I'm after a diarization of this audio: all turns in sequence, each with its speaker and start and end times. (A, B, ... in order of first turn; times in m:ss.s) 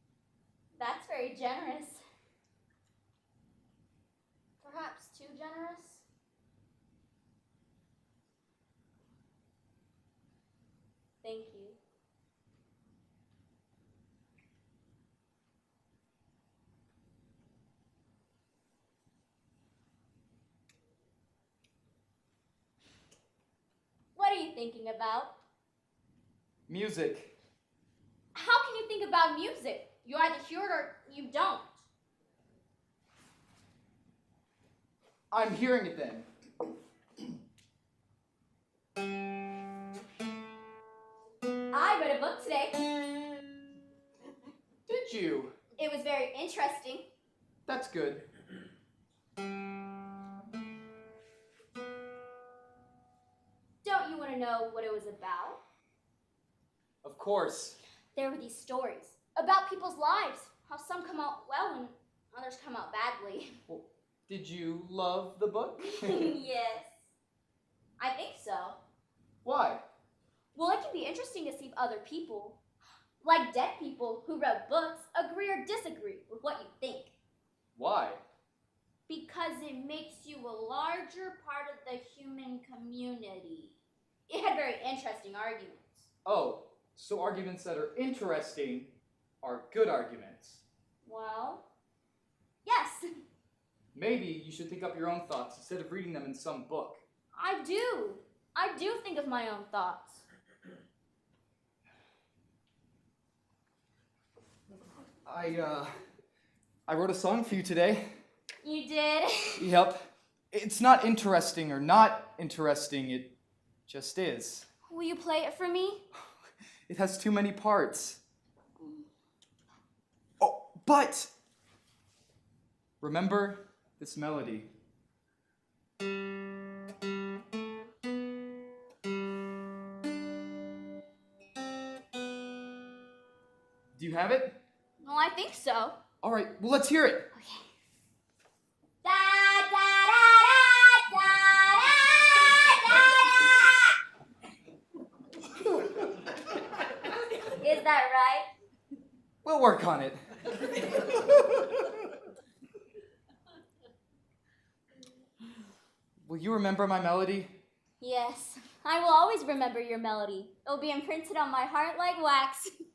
0:00.8-0:02.0 A
0:04.6-0:06.0 A
0:11.2-0:11.8 A
0:24.1-0:25.3 A
0:26.7-0:27.3 B
0:28.3-0:31.8 A
0:35.3-0:36.3 B
0:41.7-0:42.8 A
0:44.8-0:45.5 B
0:45.8-0:47.0 A
0:47.6-0:48.2 B
0:53.8-0:55.6 A
0:57.0-0:57.8 B
0:58.1-1:03.6 A
1:03.7-1:06.4 B
1:05.9-1:06.9 A
1:08.0-1:08.8 A
1:09.4-1:09.8 B
1:10.5-1:12.6 A
1:13.2-1:17.1 A
1:17.8-1:18.2 B
1:19.1-1:23.8 A
1:24.3-1:26.1 A
1:26.2-1:30.6 B
1:31.0-1:31.6 A
1:32.6-1:33.0 A
1:33.9-1:37.0 B
1:37.3-1:40.2 A
1:45.2-1:45.9 B
1:46.9-1:48.0 B
1:48.6-1:49.7 A
1:49.6-1:53.3 B
1:53.9-1:54.7 B
1:54.9-1:56.0 A
1:56.9-1:58.2 B
2:00.4-2:01.3 B
2:03.0-2:04.7 B
2:14.0-2:14.6 B
2:15.0-2:16.0 A
2:16.2-2:17.3 B
2:17.3-2:17.7 A
2:19.0-2:23.9 A
2:27.4-2:28.5 A
2:29.4-2:32.0 B
2:36.2-2:37.5 B
2:38.0-2:42.7 A